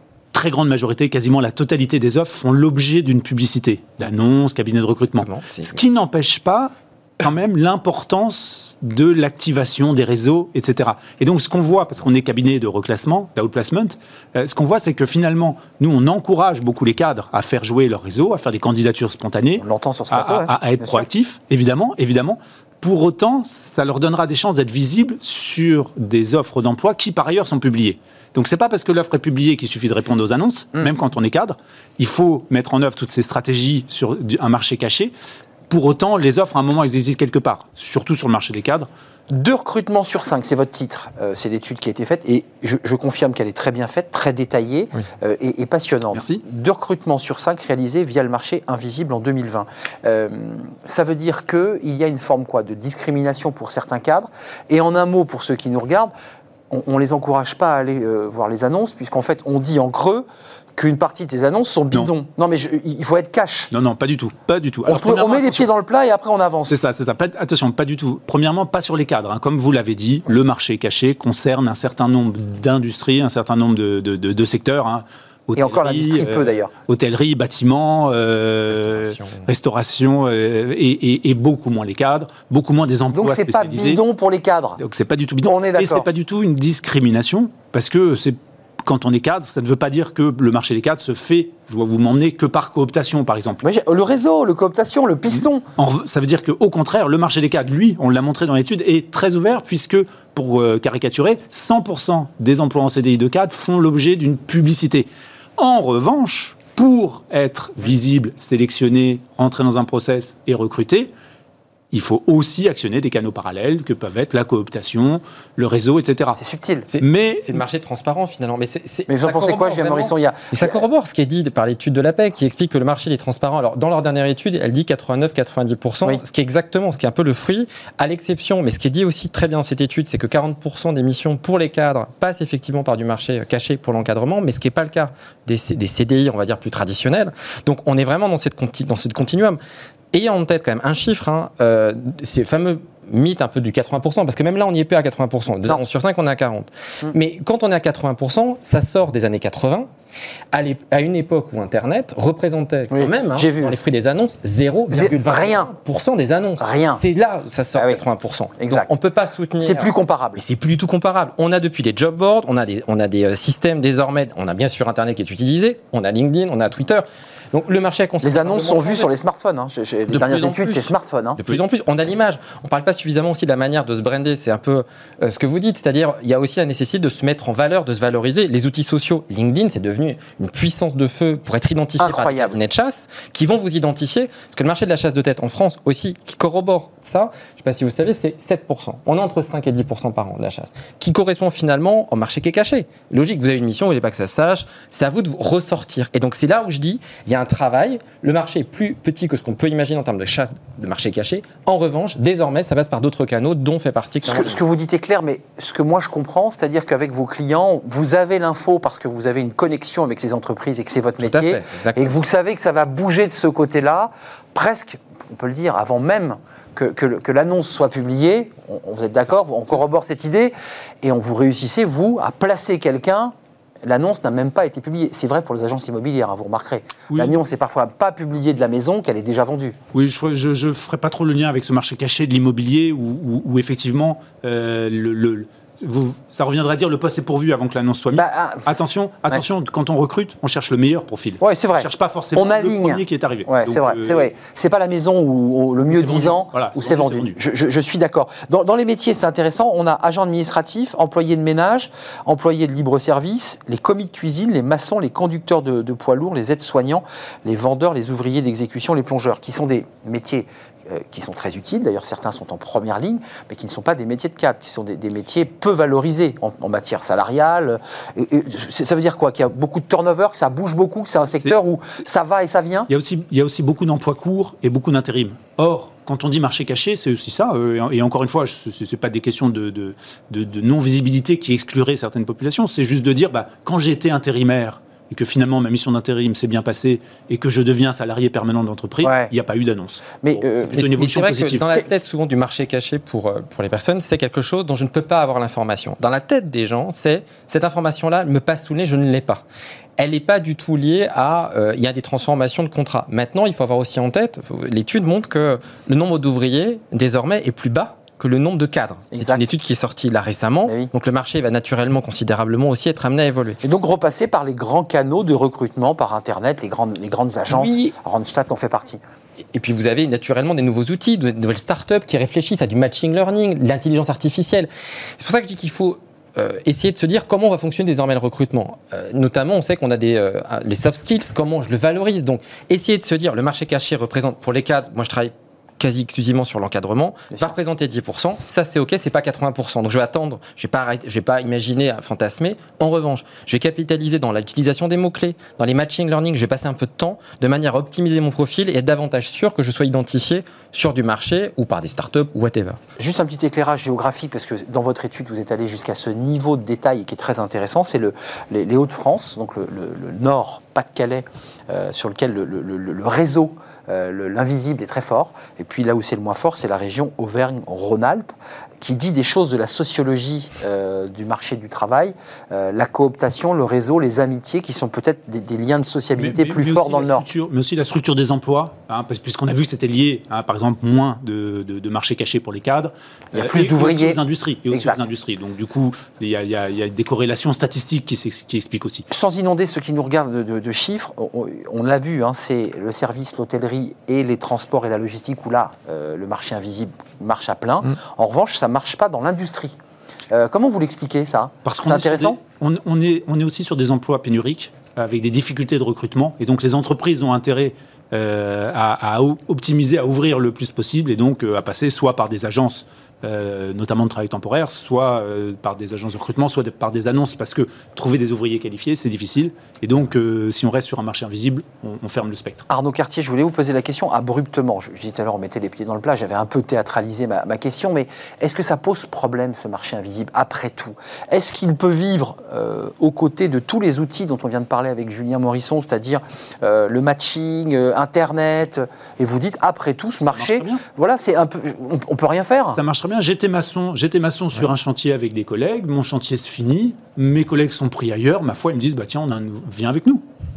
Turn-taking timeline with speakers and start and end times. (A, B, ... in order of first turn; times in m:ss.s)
0:00.3-0:35.1 A
0:05.2-0:05.8 B
0:19.6-0:21.1 C
0:35.7-0:38.9 A
0:39.3-0:56.1 C
0:46.1-0:46.4 A
0:56.7-1:03.7 C
1:03.7-1:05.7 A
1:04.8-1:06.8 C
1:06.7-1:24.0 A
1:15.6-1:16.7 C
1:18.7-1:19.5 B
1:23.1-1:24.8 C
1:24.8-1:33.6 A
1:25.4-1:26.1 C
1:33.6-1:35.6 C
1:35.4-1:51.1 A
1:51.9-1:56.4 A
1:56.4-1:56.9 C
1:56.9-2:19.6 B
1:57.0-1:57.6 A
1:59.1-2:00.8 C
2:20.1-2:29.9 B
2:30.5-2:49.1 B
2:32.9-2:33.8 C
2:34.9-2:35.7 C
2:36.6-2:37.0 C
2:37.8-2:38.0 C
2:38.6-2:38.9 C
2:39.6-2:40.4 C
2:48.2-2:51.6 C
2:50.1-3:24.6 B
3:02.0-3:02.6 C
3:24.2-3:49.8 C
3:31.2-3:32.2 B
3:47.1-3:47.4 A
3:49.9-4:04.3 A
3:58.1-3:58.7 C
4:01.4-4:32.9 C
4:05.9-4:07.4 A
4:32.9-4:51.7 A
4:49.0-4:49.3 C
4:50.2-4:50.8 C
4:50.7-4:59.4 B
5:00.0-5:13.6 B
5:09.1-5:09.5 C
5:13.6-5:19.0 C
5:17.5-5:17.9 B
5:19.5-5:52.8 B
5:53.0-6:17.3 C
6:16.2-6:29.1 A
6:23.3-6:25.0 C
6:29.1-6:39.8 C
6:40.3-6:42.4 C
6:41.6-7:02.7 A
7:02.7-7:22.8 C
7:20.2-7:20.8 A
7:22.7-7:30.2 A